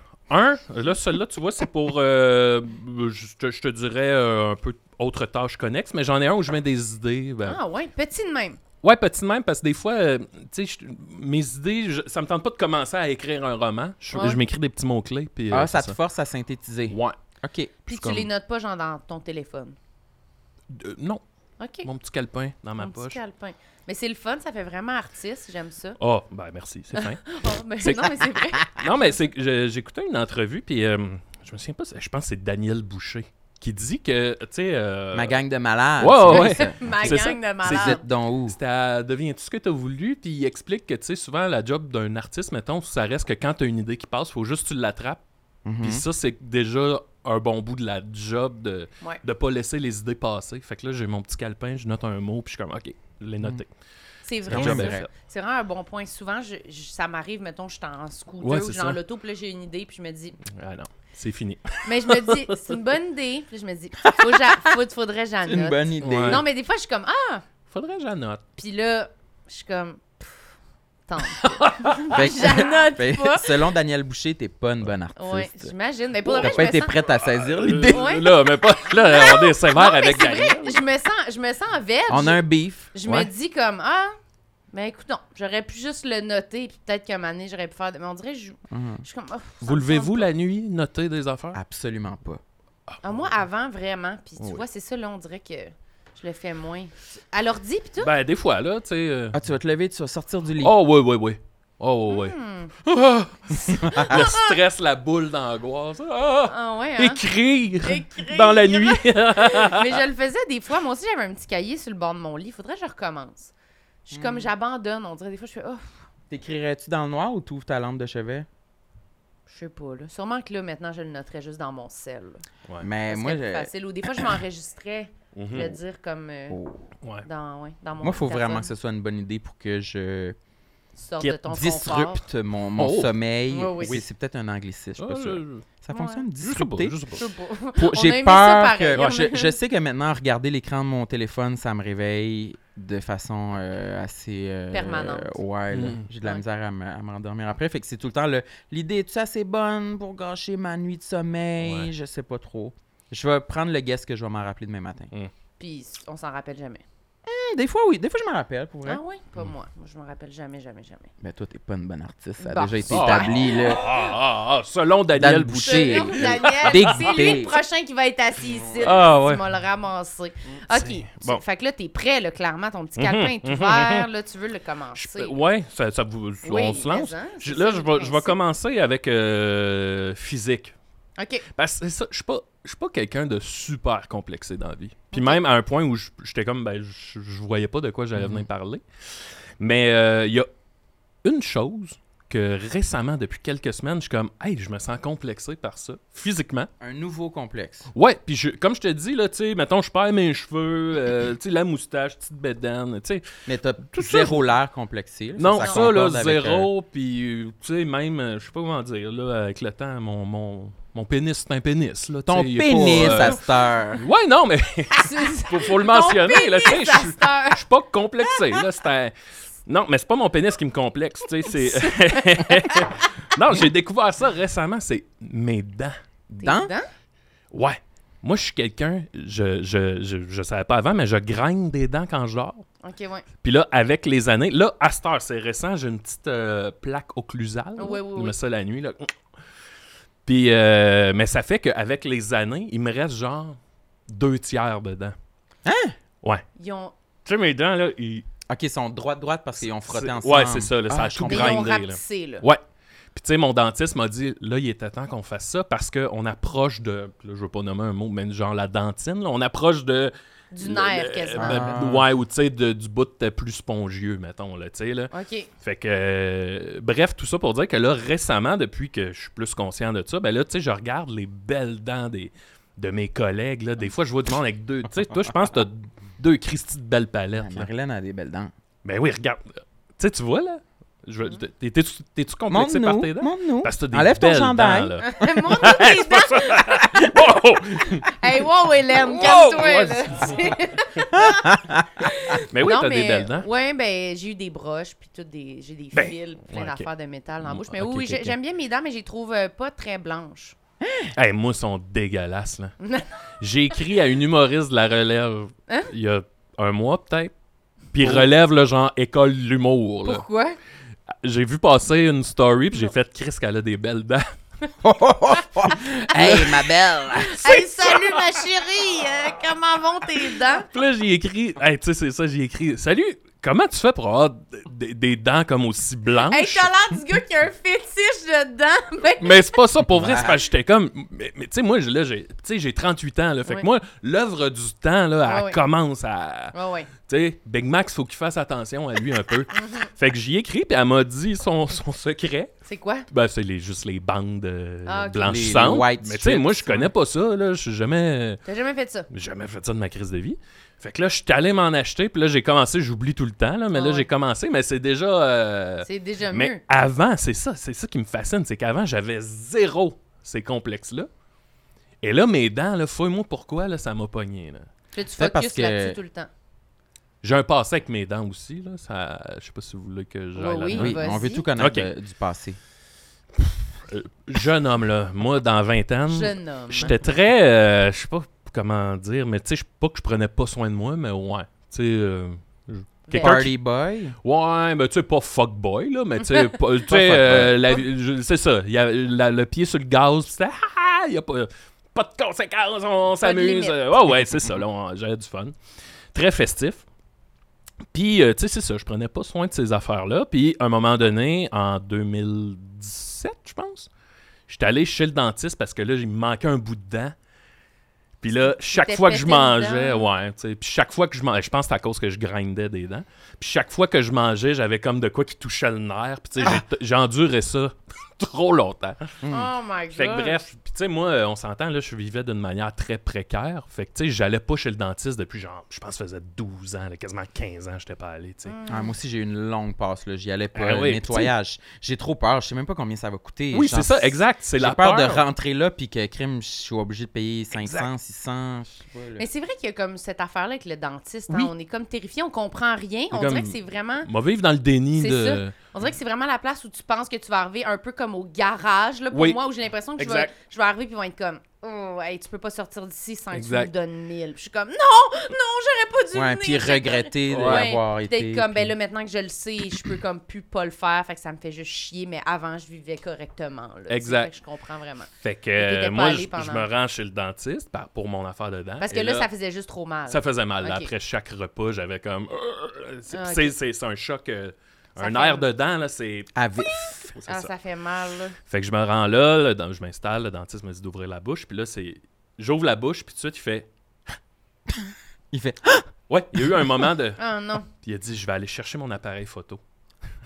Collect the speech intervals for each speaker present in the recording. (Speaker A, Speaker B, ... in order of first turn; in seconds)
Speaker A: 0.3-7.6, 8.8-15.9, 16.9-17.2, 17.9-18.3, 20.7-21.2, 21.8-23.2, 26.0-35.4, 36.0-45.2, 45.8-53.7, 54.5-55.1, 58.4-59.0, 60.5-62.7, 66.0-66.4, 67.7-68.4, 71.4-72.1, 76.2-76.7, 77.3-80.8, 83.0-83.3, 89.6-91.6, 98.0-99.4, 100.6-110.0, 125.3-125.8, 132.8-133.1, 135.0-135.7, 136.4-137.2, 145.7-146.1, 151.6-151.9, 162.9-167.4, 168.8-169.4, 170.7-171.4, 173.0-174.1, 174.9-180.7, 181.5-188.8, 189.6-190.5, 191.2-196.7, 197.9-203.2, 203.9-204.5, 205.4-213.4, 213.9-219.1, 219.6-225.9, 227.5-232.6, 233.4-239.1, 240.2-243.6, 244.1-245.1, 247.2-248.2, 249.7-252.6, 253.1-277.7, 278.8-288.1, 289.1-291.0, 292.3-293.5, 295.9-296.9, 297.4-298.4, 301.1-302.8, 303.4-307.3, 307.9-310.2, 311.2-314.2, 316.1-316.5, 317.1-318.4, 320.7-326.7, 329.2-342.5, 343.1-348.4, 349.1-361.1, 362.0-364.7, 367.2-371.0, 371.6-371.9, 373.4-383.5, 384.2-395.5, 396.1-396.8, 397.9-403.9, 404.5-407.1, 408.2-419.2, 419.9-428.6, 430.5-431.3, 433.5-435.2, 437.6-437.9, 443.1-445.5, 449.1-449.4, 450.0-450.3, 453.3-453.7, 457.3-457.7, 463.9-464.3, 465.2-469.3, 470.1-477.5, 478.5-483.7, 486.1-489.6
Speaker B: 7.5-8.6, 14.1-14.4, 17.9-19.8, 21.6-21.9, 22.8-26.0, 26.9-29.1, 36.3-38.0, 54.2-60.4, 61.8-67.4, 68.6-70.5, 71.1-73.6, 75.2-77.1, 77.9-84.1, 84.7-90.3, 93.0-98.1, 102.1-102.7, 103.5-104.6, 106.5-107.2, 107.8-113.5, 114.0-116.0, 119.5-122.4, 123.1-126.6, 127.2-128.7, 130.9-132.2, 133.5-134.0, 135.9-136.2, 137.2-139.6, 144.7-145.4, 155.6-156.8, 158.8-161.1, 162.4-164.0, 165.6-175.3, 176.4-178.3, 181.2-181.4, 185.1-185.4, 205.6-205.9, 214.9-217.6, 221.5-222.9, 226.4-226.9, 232.8-233.2, 237.8-238.3, 246.6-246.9, 251.2-252.4, 260.5-261.8, 265.1-265.5, 285.0-287.2, 287.8-300.6, 302.8-303.1, 310.0-310.6, 315.7-316.5, 317.3-320.7, 326.3-329.6, 335.2-335.6, 336.5-336.9, 339.5-339.9, 342.6-343.1, 344.9-345.5, 348.4-349.1, 353.7-354.1, 355.8-356.6, 364.9-366.3, 370.4-371.5, 376.1-376.9, 383.1-383.4, 393.2-393.8, 408.4-410.1, 419.3-420.4, 428.5-428.9, 439.2-444.1, 445.0-466.7, 468.8-470.9, 473.1-473.5, 475.0-475.4, 477.3-478.3, 487.2-487.7
Speaker C: 15.5-17.7, 35.1-38.5, 45.6-46.0, 54.5-55.1, 64.1-64.4, 65.5-66.4, 72.1-75.5, 76.3-78.2, 82.1-82.9, 88.7-89.0, 91.5-92.4, 99.3-100.7, 103.9-104.2, 114.1-114.5, 116.3-118.5, 122.8-124.2, 126.5-126.9, 128.0-130.4, 131.2-137.0, 137.8-155.1, 157.2-159.0, 161.2-163.8, 165.1-167.6, 168.6-169.0, 188.1-188.5, 196.8-197.9, 203.5-206.7, 212.2-214.0, 226.3-226.7, 245.6-245.9, 248.5-251.7, 261.4-262.1, 277.4-278.5, 282.5-285.0, 291.1-292.1, 300.8-301.1, 308.0-308.3, 314.8-317.5, 329.9-330.4, 345.2-346.9, 365.1-366.0, 370.7-372.6, 383.1-384.1, 386.9-387.7, 419.2-419.5, 428.7-439.3, 456.1-458.7, 476.3-477.1, 485.3-486.7